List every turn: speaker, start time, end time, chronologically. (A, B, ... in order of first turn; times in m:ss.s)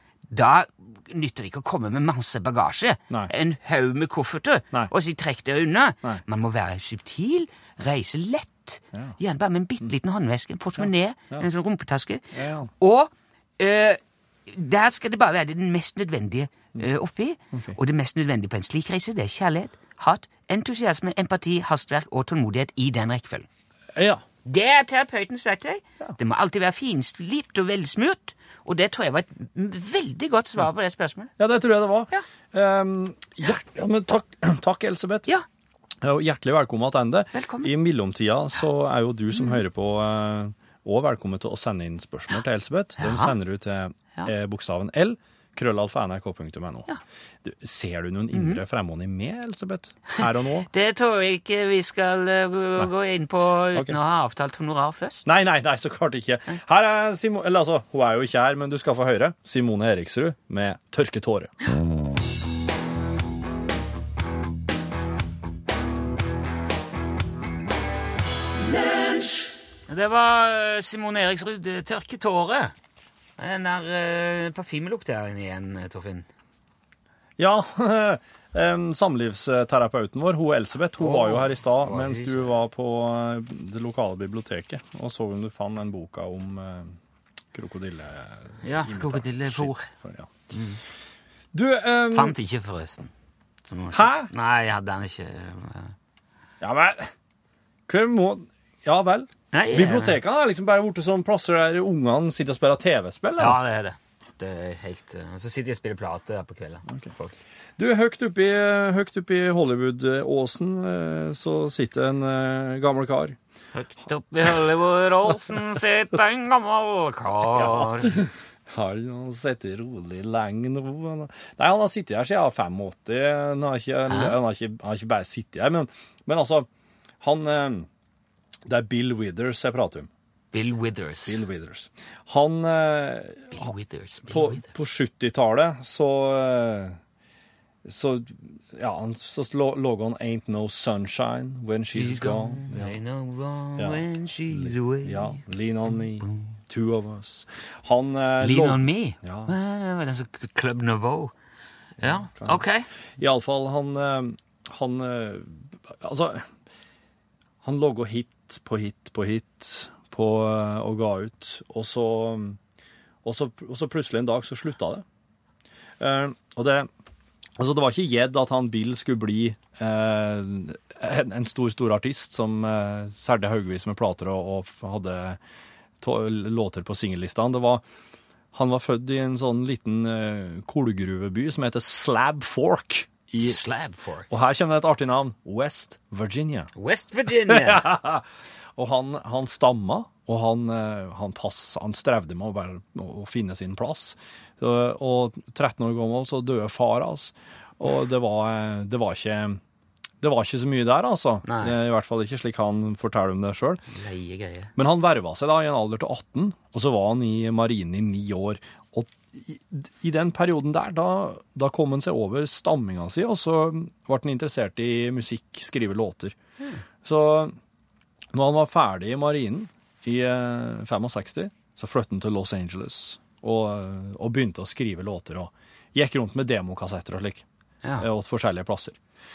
0:00.3-0:23.5 A
0:10.8-0:11.4 B
0:12.3-0:12.7 B
0:23.9-0:24.2 B
0:24.4-0:31.3 A
0:31.4-0:35.3 B
0:36.0-0:46.9 B
0:37.3-0:37.7 A
0:43.0-0:43.3 A
0:47.4-0:50.7 B
0:48.3-0:48.6 A
0:50.7-0:55.3 A
0:55.2-1:01.5 B
1:09.9-1:12.7 A
1:13.4-1:16.3 A
1:17.4-1:27.0 B
1:21.0-1:22.5 A
1:27.5-1:30.5 B
1:28.6-1:29.9 A
1:30.5-1:30.8 A
1:31.5-1:32.3 B
1:32.1-1:33.1 A
1:33.7-1:35.9 A
1:33.9-1:34.3 B
1:36.6-1:37.1 B
1:37.9-1:43.6 B
1:39.5-1:40.2 A
1:43.4-1:47.3 A
1:47.8-1:53.4 B
1:53.7-1:58.2 A
1:57.5-2:06.7 B
2:04.1-2:04.4 A
2:07.2-2:07.9 B
2:08.6-2:10.1 B
2:10.5-2:11.4 A
2:11.2-2:13.7 B
2:13.5-2:14.8 A
2:14.3-2:17.0 B
2:17.8-2:23.0 B
2:21.9-2:25.4 A
2:23.8-2:29.5 B
2:28.4-2:31.3 A
2:32.0-2:32.6 B
2:32.0-2:32.9 A
2:33.2-2:36.5 B
2:37.6-2:42.6 B
2:43.2-2:45.0 B
2:46.0-2:46.9 B
2:47.6-2:55.4 B
2:56.0-2:57.8 B
2:58.5-3:03.6 B
3:03.4-3:04.3 A
3:04.3-3:06.7 B
3:06.8-3:07.8 A
3:07.5-3:08.2 B
3:08.8-3:19.6 B
3:20.2-3:23.8 B
3:21.4-3:21.8 A
3:23.9-3:24.7 A
3:24.8-3:36.4 B
3:37.0-3:37.6 B
3:38.3-3:47.4 B
3:48.0-3:49.0 B